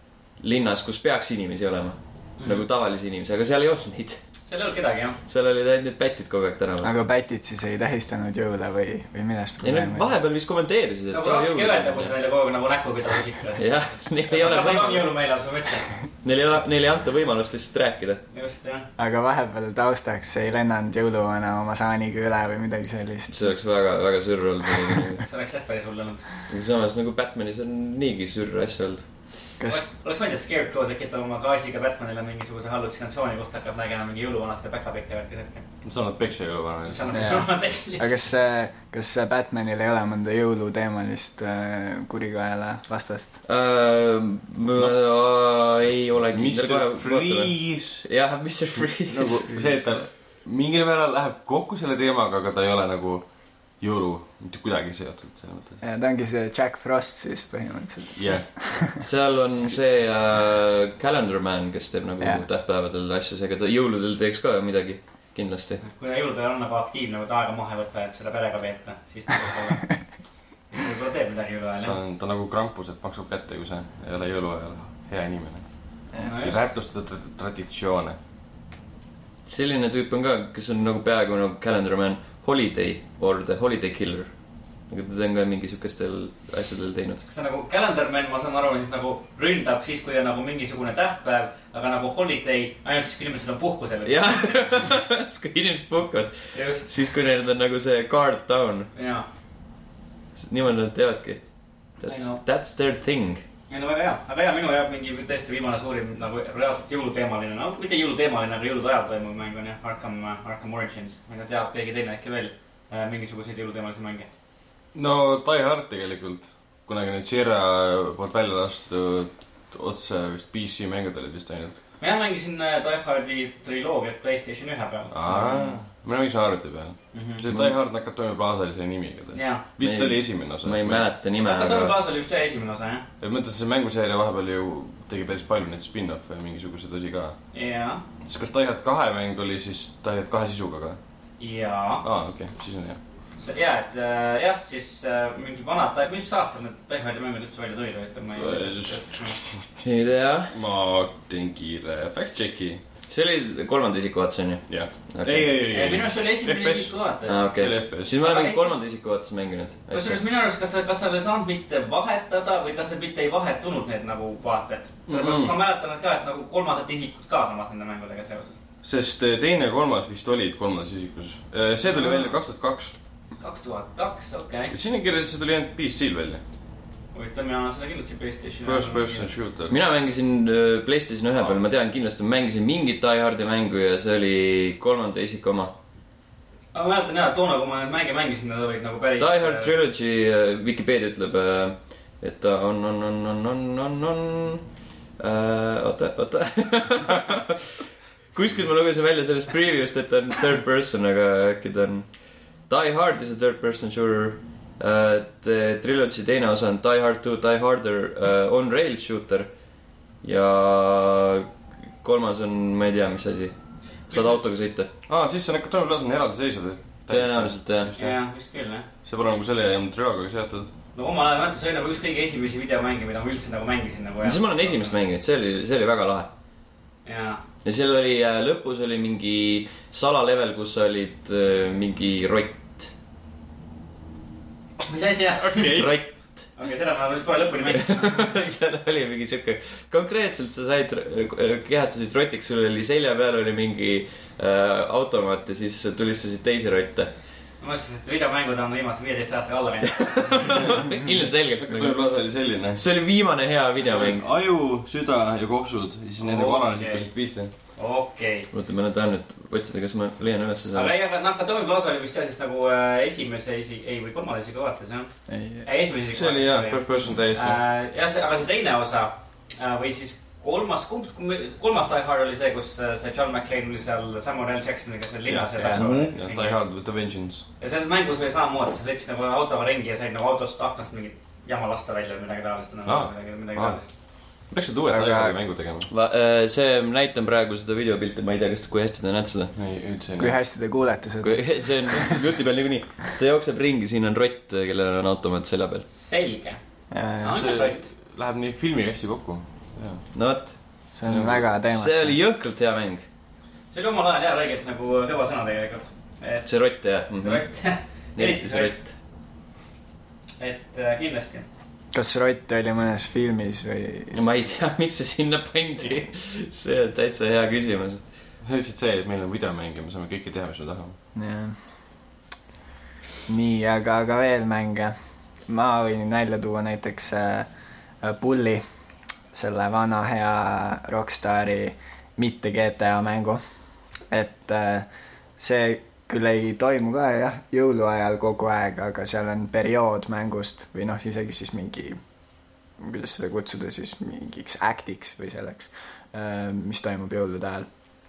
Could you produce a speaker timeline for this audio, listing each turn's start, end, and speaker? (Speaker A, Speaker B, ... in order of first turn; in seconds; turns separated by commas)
Speaker A: 0.3-4.2, Speaker B: 4.5-5.2, Speaker A: 5.3-6.9, Speaker C: 6.8-10.1, Speaker A: 9.6-12.1, Speaker B: 11.1-13.7, Speaker A: 13.6-15.1, Speaker B: 14.3-15.9, Speaker A: 16.2-18.2, Speaker B: 18.3-18.9, Speaker C: 19.0-23.4, Speaker A: 23.3-25.2, Speaker B: 25.2-26.3, Speaker A: 26.5-29.1, Speaker B: 29.7-35.6, Speaker D: 35.8-37.2, Speaker B: 36.9-38.2, Speaker C: 37.1-37.5, Speaker C: 38.0-43.4, Speaker A: 43.4-49.7, Speaker D: 46.3-48.0, Speaker D: 49.1-53.3, Speaker D: 53.8-55.8, Speaker C: 55.8-59.0, Speaker D: 58.2-58.4, Speaker A: 59.0-65.8, Speaker B: 65.8-70.0, Speaker B: 70.7-72.0, Speaker D: 71.8-78.2, Speaker B: 76.2-76.6, Speaker A: 79.5-84.3, Speaker A: 84.9-87.2, Speaker B: 87.2-94.3, Speaker A: 94.0-98.9, Speaker B: 96.5-96.9, Speaker B: 98.9-99.2, Speaker A: 100.3-101.4, Speaker A: 102.0-103.4, Speaker B: 102.0-102.4, Speaker B: 103.7-114.3, Speaker D: 114.9-121.8, Speaker B: 122.0-125.7, Speaker D: 125.1-131.1, Speaker B: 127.1-127.4, Speaker B: 129.3-129.6, Speaker A: 129.8-132.0, Speaker B: 131.4-133.0, Speaker D: 133.2-137.4, Speaker B: 137.5-138.0, Speaker D: 138.2-141.0, Speaker B: 141.4-142.0, Speaker D: 142.0-143.0, Speaker B: 143.4-149.3, Speaker D: 148.4-149.6, Speaker A: 149.8-150.5, Speaker D: 150.5-152.8, Speaker A: 153.1-155.6, Speaker D: 154.7-156.9, Speaker B: 155.7-157.4, Speaker A: 157.2-160.2, Speaker D: 157.5-158.1, Speaker B: 158.1-158.8, Speaker B: 159.9-168.6, Speaker D: 165.1-165.5, Speaker D: 168.8-172.9, Speaker B: 171.8-172.3, Speaker B: 173.4-174.7, Speaker D: 174.7-176.4, Speaker B: 177.1-179.3, Speaker D: 178.6-179.8, Speaker A: 179.7-185.7, Speaker B: 186.7-189.7, Speaker A: 189.2-194.6, Speaker A: 195.2-202.1, Speaker A: 202.7-209.5, Speaker A: 210.2-211.5, Speaker A: 212.0-213.5, Speaker B: 214.1-214.4, Speaker A: 214.1-214.9, Speaker D: 215.1-218.2, Speaker A: 217.1-217.9, Speaker B: 217.9-218.9, Speaker D: 219.0-220.7, Speaker B: 220.9-224.9, Speaker A: 224.2-226.3, Speaker B: 227.0-227.4, Speaker A: 227.6-232.9, Speaker B: 234.9-235.9, Speaker D: 235.5-235.9, Speaker A: 235.7-236.1, Speaker B: 236.6-238.5, Speaker A: 237.7-247.1, Speaker B: 247.6-250.6, Speaker A: 250.2-252.0, Speaker D: 251.6-252.8, Speaker A: 252.7-254.2, Speaker D: 253.8-257.5, Speaker B: 256.2-258.5, Speaker A: 258.5-260.9, Speaker B: 260.7-265.1, Speaker C: 265.3-265.6, Speaker B: 265.6-276.6, Speaker D: 266.1-267.6, Speaker D: 275.3-277.4, Speaker C: 275.6-275.9, Speaker B: 277.6-283.9, Speaker D: 282.9-285.9, Speaker C: 284.9-285.4, Speaker A: 285.9-289.5, Speaker D: 289.5-290.4, Speaker C: 290.2-292.2, Speaker A: 291.2-295.9, Speaker B: 296.0-296.6, Speaker C: 296.9-297.5, Speaker B: 297.2-297.9, Speaker D: 297.4-300.0, Speaker A: 300.1-300.6, Speaker C: 300.9-302.2, Speaker A: 301.1-303.0, Speaker B: 303.7-306.5, Speaker A: 306.4-307.4, Speaker B: 307.1-308.8, Speaker A: 308.1-308.9, Speaker B: 310.4-311.4, Speaker C: 311.9-314.1, Speaker A: 314.1-318.0, Speaker D: 318.4-320.9, Speaker C: 321.1-321.6, Speaker C: 323.3-324.9, Speaker C: 325.5-327.5, Speaker C: 328.0-328.6, Speaker C: 329.3-333.4, Speaker C: 334.1-342.0, Speaker C: 342.8-347.7